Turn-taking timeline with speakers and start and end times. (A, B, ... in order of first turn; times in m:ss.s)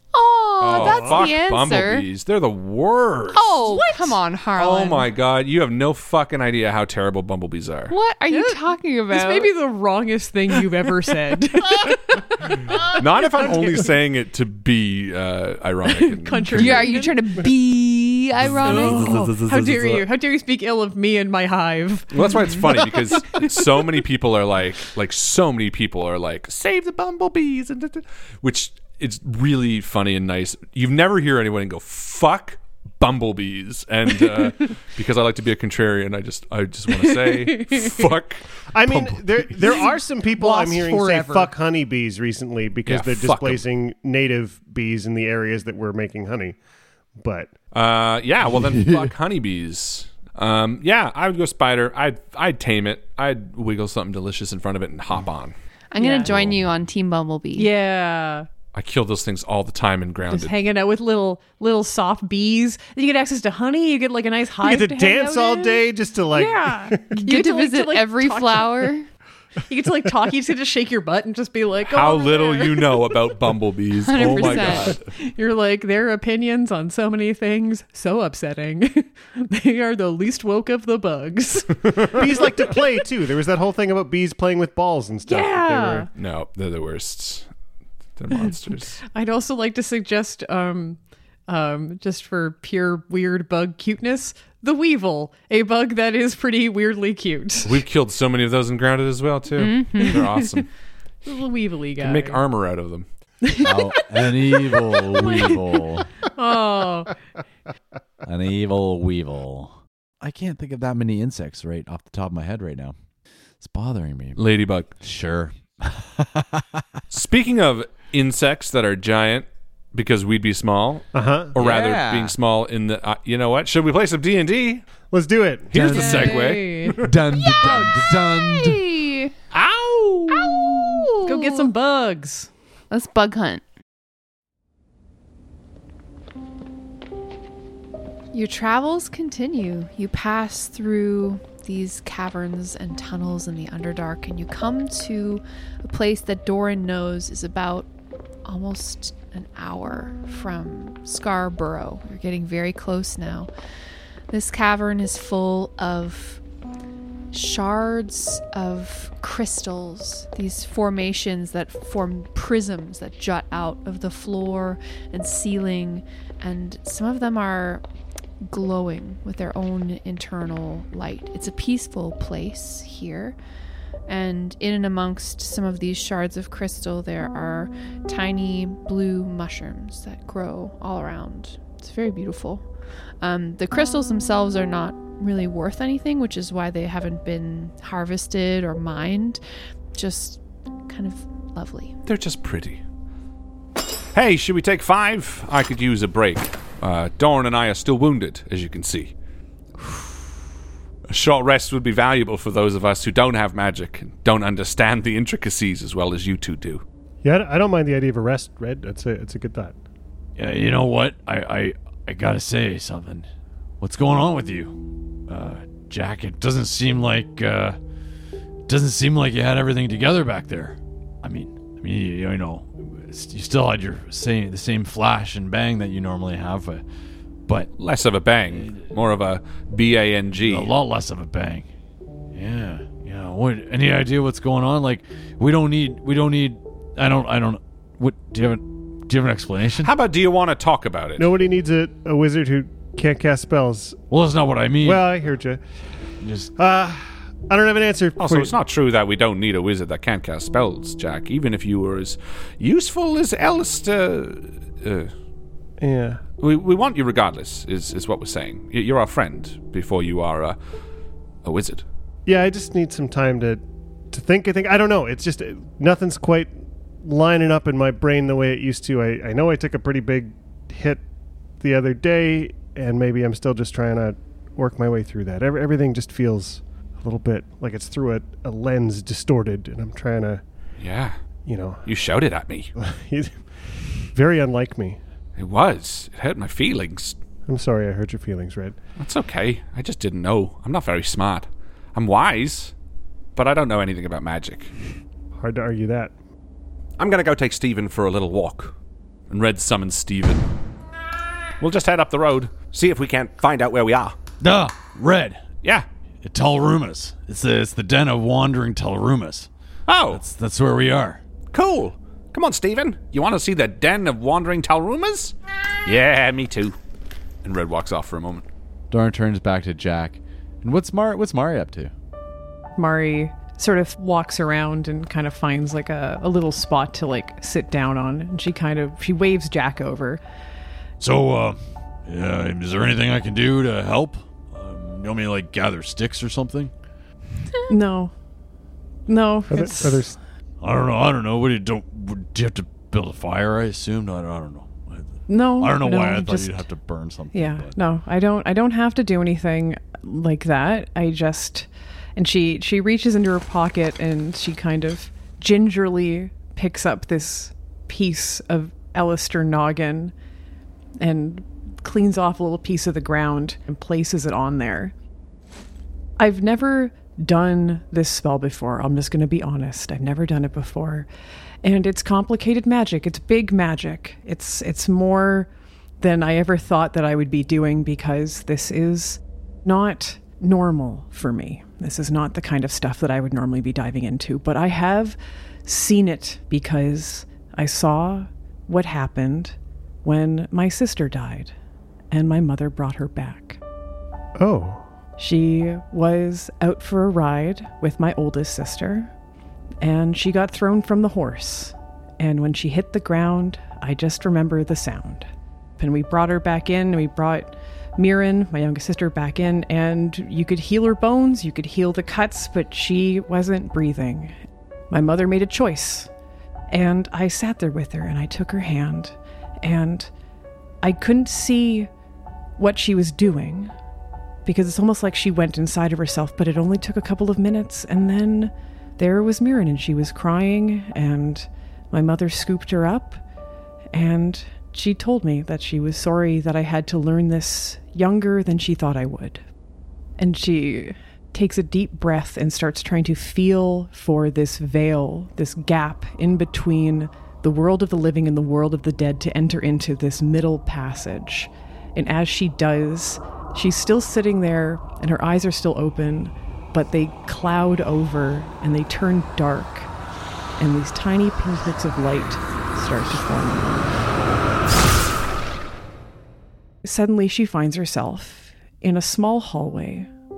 0:00.1-0:02.1 A
0:00.6-0:03.6 B
0:00.7-0:01.2 C
0:03.3-0:05.1 A
0:03.7-0:04.2 D
0:04.6-0:08.0 B
0:07.9-0:09.5 A
0:08.3-0:13.9 D
0:12.9-0:17.1 B
0:15.9-0:17.2 D
0:16.6-0:19.2 A
0:18.4-0:20.0 B
0:18.6-0:23.5 D
0:22.1-0:39.1 B
0:37.0-0:37.9 D
0:38.7-0:46.6 C
0:40.4-0:41.5 D
0:42.9-0:43.6 B
0:47.2-0:47.5 C
0:47.7-0:55.6 B
0:48.4-0:49.1 E
0:55.9-0:57.7 A
0:56.0-0:56.3 D
0:56.3-0:56.6 B
0:57.6-0:58.5 D
0:58.7-1:00.6 B
1:00.3-1:08.9 D
1:04.6-1:07.2 C
1:07.2-1:09.1 A
1:09.7-1:13.0 D
1:11.9-1:15.1 B
1:14.1-1:15.0 A
1:14.2-1:22.0 D
1:22.2-1:26.1 C
1:25.3-1:26.1 D
1:26.2-1:27.5 B
1:28.2-1:29.0 B
1:29.1-1:37.8 D
1:37.6-1:40.7 B
1:39.6-1:40.3 A
1:40.0-1:40.6 D
1:41.2-1:42.4 D
1:42.0-1:43.1 B
1:43.6-1:46.1 E
1:44.3-1:45.6 D
1:46.4-1:47.2 D
1:48.2-1:53.0 E
1:53.6-1:56.8 E
1:54.4-1:54.9 B
1:57.1-2:04.9 B
2:01.1-2:01.5 C
2:01.6-2:02.4 E
2:05.1-2:06.0 C
2:05.7-2:06.9 B
2:05.7-2:06.3 E
2:05.9-2:06.5 A
2:05.9-2:07.0 D
2:07.0-2:08.8 E
2:07.4-2:09.3 A
2:09.5-2:11.1 B
2:10.3-2:11.7 A
2:11.2-2:12.5 D
2:12.9-2:13.6 A
2:18.3-2:27.9 A
2:28.4-2:33.5 A
2:34.3-2:36.4 A
2:37.3-2:47.8 A
2:48.4-2:53.4 A
2:54.1-3:02.7 A
3:03.2-3:09.4 A
3:10.0-3:12.0 A
3:12.1-3:12.8 B
3:14.1-3:19.1 B
3:19.8-3:20.2 A
3:21.1-3:26.8 B
3:27.2-3:29.8 C
3:30.4-3:33.3 F
3:33.8-3:37.8 F
3:38.7-3:46.8 F
3:47.5-3:47.7 F
3:47.8-3:50.7 B
3:48.5-3:48.8 F
3:50.4-3:51.7 F
3:52.3-3:59.9 F
3:59.8-4:01.3 B
4:01.2-4:04.0 C
4:04.1-4:05.1 F
4:04.8-4:05.6 C
4:06.2-4:06.5 F
4:06.6-4:08.6 C
4:08.2-4:15.1 B
4:15.8-4:16.2 C
4:16.4-4:20.6 B
4:21.4-4:21.8 B
4:22.3-4:31.0 C
4:31.6-4:40.4 C
4:40.8-4:41.2 B
4:41.4-4:41.8 C
4:41.8-4:42.7 B
4:42.8-4:43.5 C
4:44.0-4:45.0 C
4:45.4-4:47.2 B
4:47.5-4:48.8 C
4:49.0-4:52.7 B
4:53.4-4:54.7 B
4:55.4-4:56.1 C
4:57.0-4:58.8 B
4:59.3-5:00.5 B
5:01.6-5:04.2 B
5:04.4-5:05.4 F
5:06.2-5:09.5 F
5:09.9-5:10.2 B
5:10.1-5:11.2 F
5:11.5-5:16.8 B
5:17.4-5:18.4 B
5:18.9-5:21.9 E
5:22.8-5:30.2 D
5:31.0-5:36.7 F
5:37.7-5:38.1 D
5:39.1-5:40.1 D
5:39.5-5:40.2 C
5:40.6-5:47.8 F
5:45.3-5:46.6 D
5:47.3-6:00.1 D
6:01.0-6:04.9 D
6:06.2-6:11.1 D
6:11.6-6:31.5 D
6:32.1-6:33.6 D
6:34.4-6:34.8 C
6:35.2-6:39.1 D
6:39.8-6:54.4 D
6:54.9-6:56.1 D
6:56.7-7:00.1 D
7:00.8-7:01.9 D
7:02.6-7:03.7 D
7:04.4-7:13.2 D
7:13.9-7:19.4 D
7:20.2-7:39.9 D
7:40.6-7:44.0 D
7:46.8-7:50.1 D